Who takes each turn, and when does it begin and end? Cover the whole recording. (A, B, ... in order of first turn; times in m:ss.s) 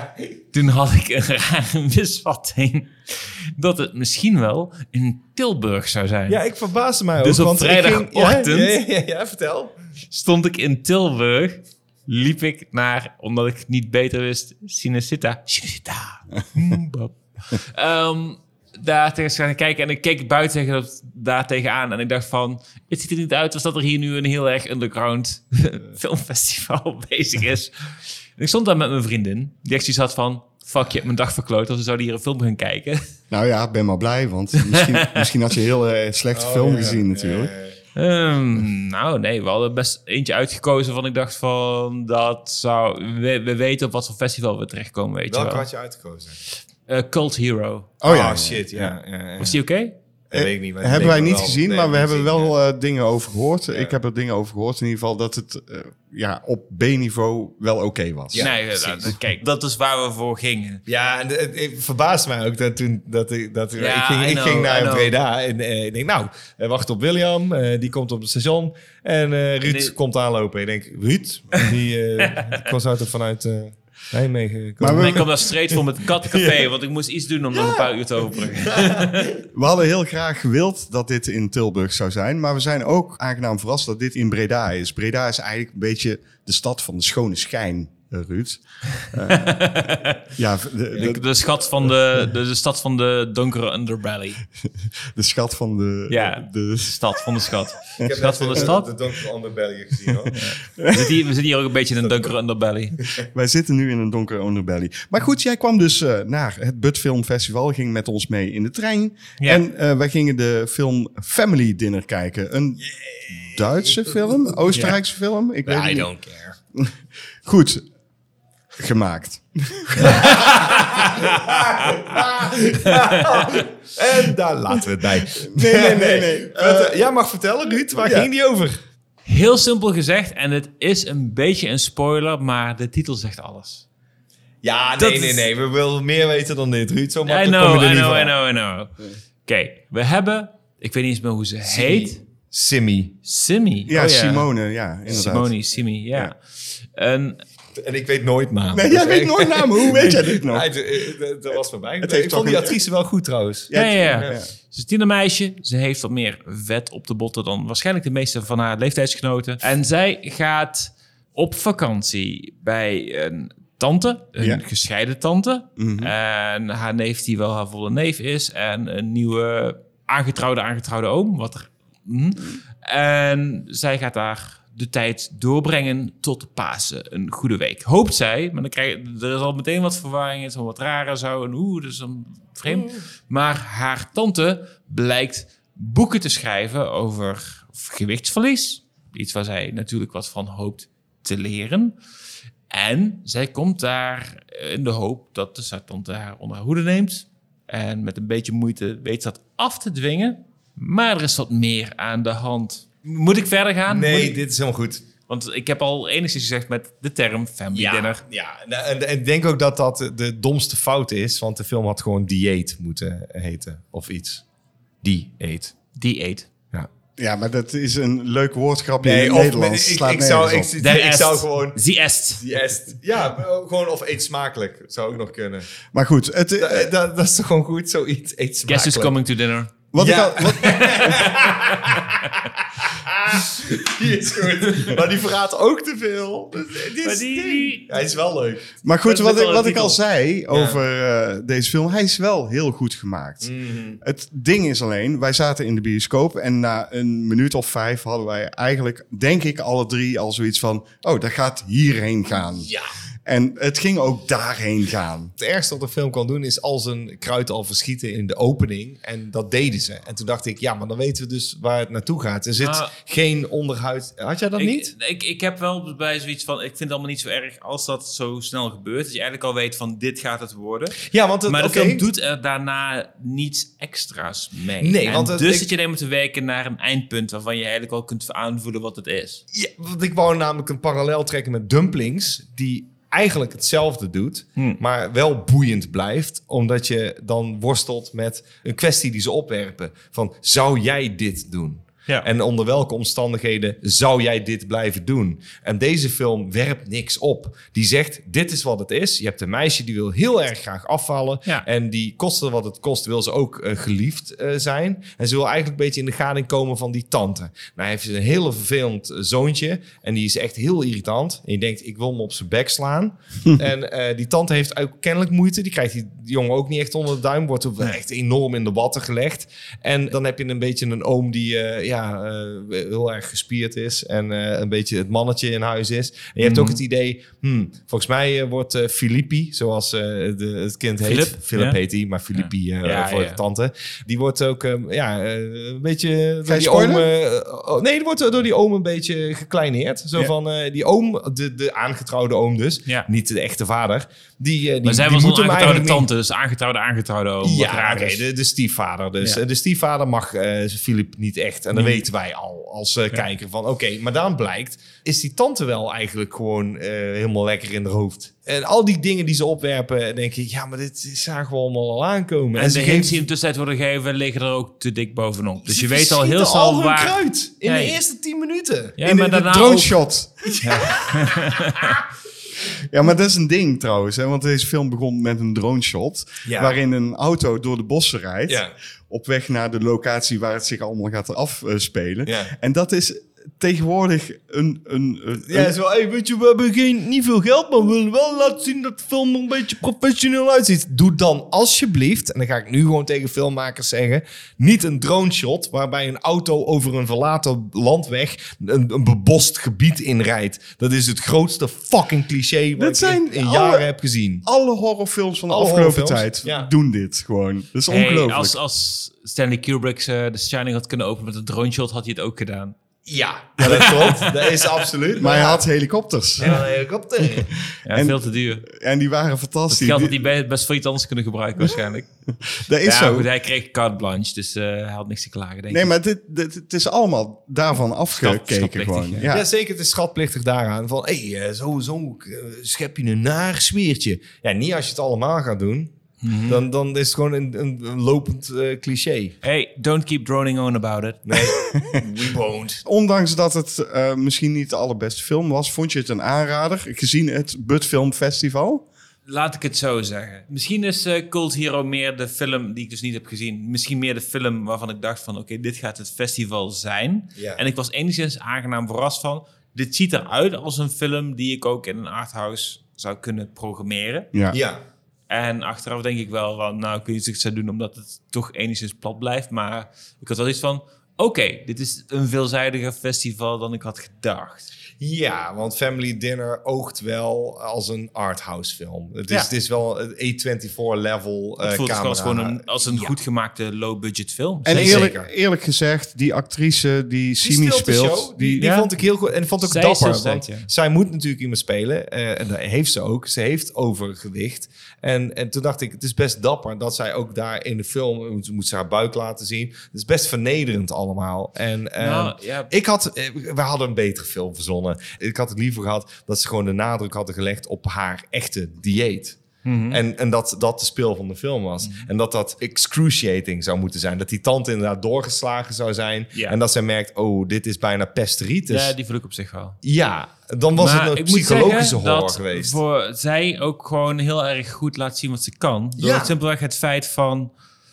0:00.5-0:06.4 A
0:06.3-0:09.7 B
0:07.2-0:08.8 A
0:10.1-0:33.0 A
0:33.3-0:37.5 C
0:34.6-0:35.3 A
0:36.3-0:37.8 B
0:37.9-0:45.7 A
0:45.3-0:46.4 B
0:46.9-0:47.9 A
0:48.0-0:48.9 C
0:48.0-0:49.6 B
0:49.4-0:49.9 A
0:50.3-0:58.5 C
0:50.3-0:52.5 B
0:58.3-0:59.1 B
0:58.4-1:00.8 A
1:00.9-1:15.5 B
1:03.8-1:05.1 A
1:09.6-1:09.9 A
1:12.2-1:12.6 A
1:14.8-1:15.2 C
1:14.9-1:19.4 A
1:16.2-1:16.7 B
1:17.5-1:17.9 B
1:18.4-1:19.1 B
1:19.5-1:29.6 C
1:29.2-1:30.2 A
1:30.3-1:31.2 C
1:31.0-1:34.4 A
1:35.1-1:37.3 C
1:36.1-1:38.9 A
1:38.0-1:38.7 C
1:38.0-1:40.4 B
1:40.3-1:43.0 A
1:40.8-1:41.1 C
1:43.3-1:56.1 C
1:53.0-1:54.0 B
1:55.6-1:56.6 B
1:57.4-1:57.8 C
1:58.8-2:00.5 C
2:00.3-2:02.2 A
2:01.0-2:08.8 B
2:02.9-2:03.6 A
2:05.4-2:07.0 C
2:08.0-2:08.3 C
2:09.2-2:13.8 A
2:14.6-2:18.3 B
2:15.0-2:15.5 A
2:17.2-2:18.9 A
2:19.4-2:22.2 A
2:21.7-2:23.2 B
2:23.2-2:24.5 A
2:23.9-2:25.5 C
2:25.1-2:27.4 A
2:27.8-2:34.4 B
2:28.7-2:30.7 C
2:32.0-2:32.8 C
2:33.7-2:34.5 C
2:33.7-3:12.0 A
2:45.8-2:46.1 C
3:02.7-3:03.0 B
3:12.7-3:24.4 A
3:23.9-3:25.0 B
3:25.3-3:28.2 A
3:27.7-3:34.4 B
3:35.0-3:35.8 B
3:35.9-3:36.5 A
3:37.2-3:40.7 C
3:39.0-3:41.8 B
3:40.8-3:42.4 A
3:42.4-3:45.7 B
3:45.9-3:46.9 C
3:46.6-3:49.2 B
3:48.7-3:49.7 A
3:49.9-3:51.2 C
3:50.0-3:58.7 B
3:50.6-3:52.0 A
3:57.0-3:58.0 A
3:58.8-4:03.5 C
3:59.0-4:00.0 A
4:00.5-4:00.8 B
4:03.4-4:04.0 B
4:04.0-4:12.7 C
4:12.6-4:12.9 B
4:13.2-4:15.3 C
4:15.4-4:24.9 B
4:22.6-4:22.9 A
4:24.6-4:39.4 A
4:31.0-4:32.0 B
4:34.8-4:35.7 B
4:39.5-5:46.1 B
5:26.4-5:26.8 A
5:31.0-5:31.8 A
5:32.4-5:33.4 A
5:36.5-5:37.1 C
5:44.8-5:48.2 A
5:47.4-6:03.2 B
5:51.7-5:52.0 A
6:02.5-6:08.0 A
6:05.6-6:09.1 B
6:09.0-6:09.9 A
6:09.0-6:10.6 C
6:10.6-6:12.0 A
6:10.6-6:11.1 B
6:12.9-6:25.7 C
6:16.4-6:16.7 B
6:18.5-6:18.7 B
6:22.2-6:22.5 B
6:25.5-6:44.4 B
6:42.8-6:43.9 C
6:44.4-6:48.5 C
6:45.5-6:46.7 B
6:47.9-6:52.8 A
6:53.0-6:55.6 B
6:53.6-6:54.7 A
6:55.2-6:56.6 C
6:56.4-6:57.5 B
6:57.8-6:58.6 A
6:57.9-7:00.2 C
6:59.7-7:02.1 A
7:02.5-7:03.3 C
7:02.8-7:05.9 A
7:05.7-7:09.4 C
7:08.1-7:09.3 A
7:09.3-7:15.9 B
7:16.2-7:16.6 A
7:16.4-7:19.3 B
7:19.4-7:21.4 A
7:21.2-7:22.8 B
7:22.8-7:28.8 C
7:29.2-7:44.3 A
7:37.4-7:37.6 B
7:44.5-7:44.8 B
7:45.3-7:54.7 A
7:55.0-8:03.1 B
8:01.6-8:05.1 A
8:04.6-8:08.6 C
8:04.7-8:05.3 B
8:07.4-8:29.4 B
8:08.6-8:08.9 A
8:09.6-8:10.7 A
8:22.0-8:22.7 A
8:29.6-8:30.0 A
8:29.9-8:38.9 B
8:38.7-8:39.8 A
8:39.8-8:42.8 B
8:40.8-8:47.5 A
8:46.0-8:46.3 B